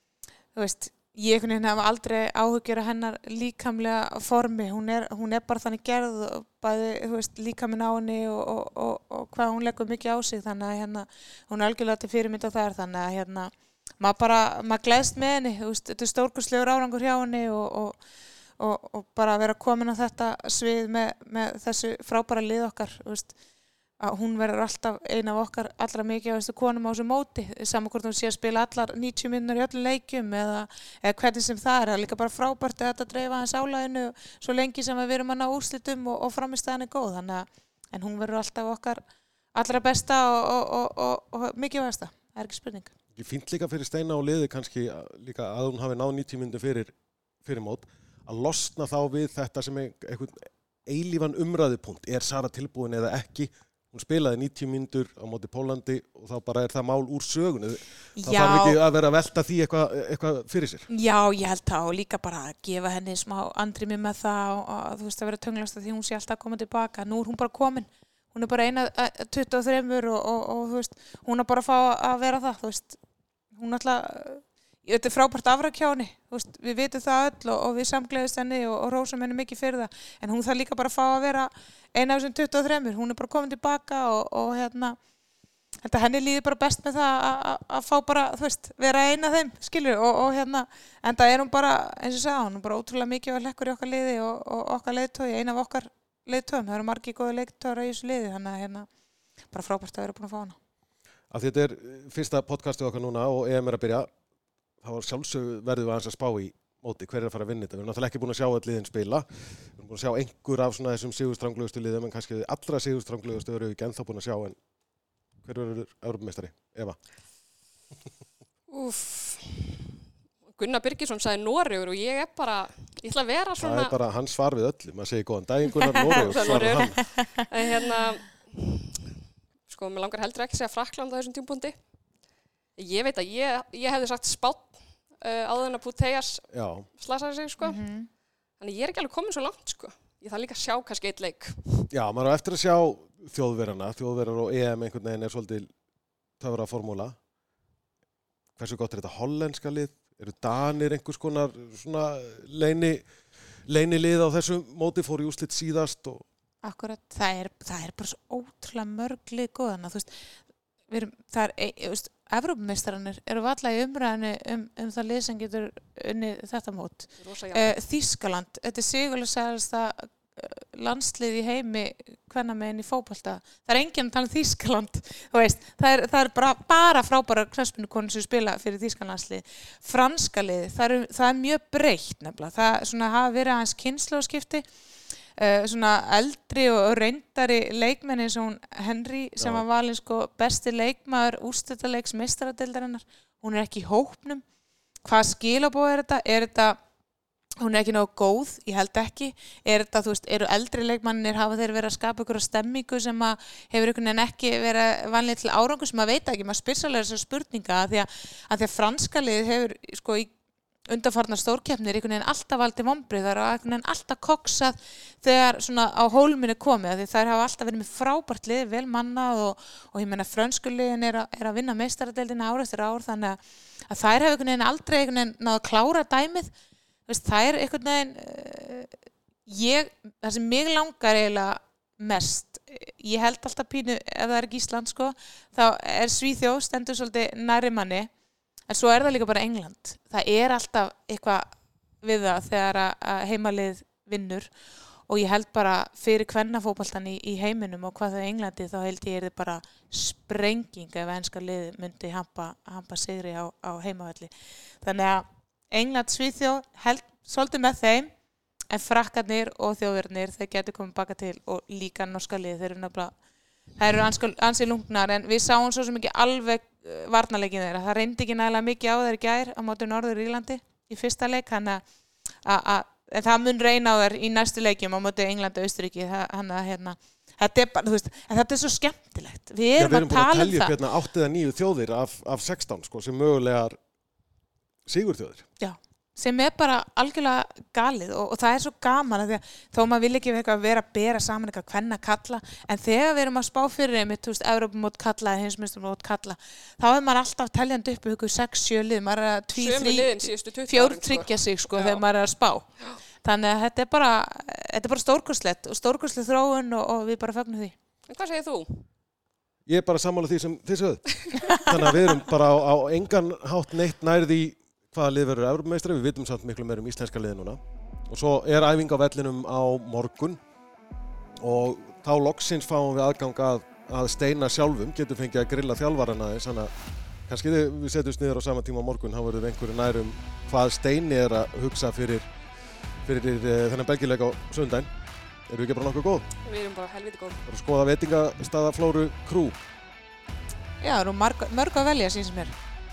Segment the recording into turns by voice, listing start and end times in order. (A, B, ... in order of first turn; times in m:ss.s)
0:00.5-0:18.0 A
0:18.6-0:23.3 A
0:24.0-0:39.0 A
0:39.5-0:42.9 A
0:43.1-1:00.9 B
0:58.2-0:58.8 A
1:00.9-1:13.0 A
1:13.5-1:25.0 A
1:25.8-1:38.9 A
1:39.5-1:40.6 A
1:41.3-1:44.1 B
1:44.8-1:54.6 B
1:55.4-1:57.0 B
1:58.7-2:03.9 C
2:03.6-2:07.0 B
2:06.0-2:09.1 C
2:09.7-2:11.7 C
2:12.8-2:17.8 C
2:16.5-2:16.8 B
2:17.6-2:18.1 A
2:18.6-2:21.9 C
2:21.9-2:25.7 B
2:26.4-2:27.2 B
2:28.6-2:33.0 B
2:33.7-2:36.2 B
2:36.6-2:40.1 A
2:40.9-3:04.6 A
2:47.2-2:47.7 C
3:05.4-3:14.4 A
3:15.0-3:16.8 A
3:17.6-3:30.3 A
3:30.9-3:43.4 A
3:43.9-3:46.5 A
3:47.1-3:48.9 A
3:49.4-3:58.1 A
3:58.7-4:04.5 A
4:05.1-4:18.1 A
4:18.7-4:23.1 A
4:23.8-4:31.8 A
4:32.4-4:40.8 A
4:39.8-4:43.8 B
4:44.8-4:45.4 B
4:45.6-5:02.6 A
4:59.6-5:02.0 C
5:03.2-5:07.7 A
5:08.1-5:08.8 C
5:09.6-5:20.4 B
5:11.3-5:11.7 C
5:21.4-5:26.7 B
5:27.3-5:32.3 B
5:33.0-5:34.9 B
5:35.5-5:36.3 B
5:36.4-5:37.4 C
5:37.4-5:39.6 B
5:40.8-5:42.5 A